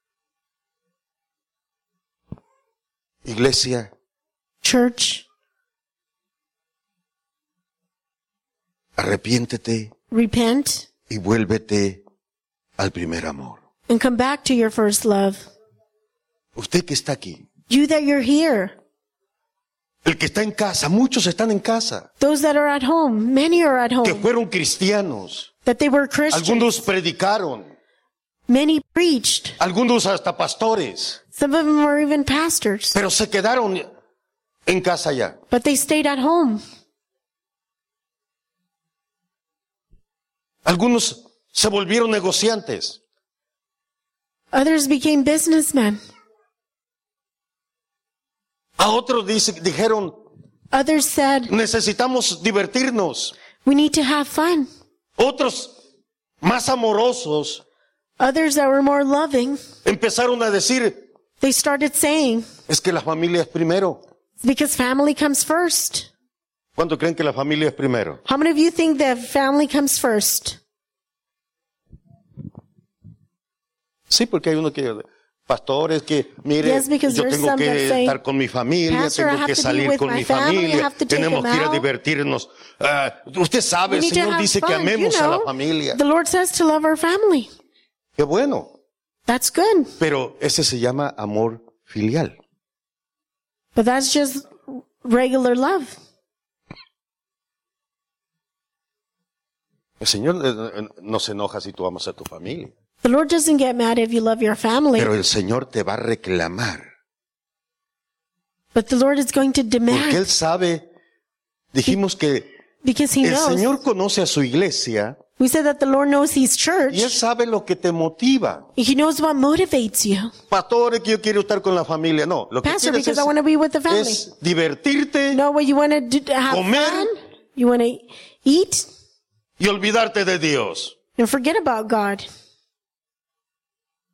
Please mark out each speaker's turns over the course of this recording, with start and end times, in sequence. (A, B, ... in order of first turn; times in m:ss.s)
0:03.2-0:03.9 A
0:04.6-0:05.2 B
0:09.0-0:09.9 A
0:10.1-0:10.9 B
0:11.1-0:12.0 A
0:12.8-0:13.6 A
0:13.9-0:15.5 B
0:16.6-0:17.4 A
0:17.7-0:18.7 B
0:20.0-0:22.1 A
0:22.2-0:24.2 B
0:24.0-0:25.5 A
0:25.6-0:26.8 B
0:26.3-0:27.7 A
0:28.5-0:29.6 B
0:29.6-0:31.2 A
0:31.3-0:33.0 B
0:32.9-0:33.9 A
0:34.6-0:35.4 A
0:35.5-0:36.6 B
0:40.6-0:43.0 A
0:44.5-0:46.0 B
0:48.8-0:50.1 A
0:50.7-0:51.5 B
0:51.5-0:53.3 A
0:53.6-0:54.7 B
0:55.2-0:55.7 A
0:56.4-0:57.6 A
0:58.2-0:59.6 B
0:59.8-1:01.0 A
1:01.4-1:02.5 B
1:02.7-1:04.0 A
1:04.4-1:06.1 B
1:06.8-1:08.2 A
1:08.2-1:10.6 B
1:14.1-1:26.0 A
1:16.6-1:18.2 B
1:18.9-1:21.8 B
1:23.9-1:27.5 B
1:28.2-1:28.7 A
1:29.3-1:29.9 B
1:30.0-1:32.3 A
1:33.7-1:35.9 B
1:40.0-1:42.7 A
1:43.0-1:45.1 B
1:45.0-1:46.9 A
1:48.7-1:50.3 B
1:49.9-1:50.8 A
1:51.7-1:52.5 A
1:52.8-1:53.7 B
1:53.2-1:55.2 A
1:55.4-1:57.2 B
1:56.9-1:58.6 A
1:58.8-2:00.3 B
2:00.5-2:03.3 A
2:02.6-2:04.2 B
2:03.9-2:05.4 A
2:05.3-2:08.9 B
2:06.5-2:07.1 A
2:09.6-2:11.0 A
2:11.2-2:12.2 B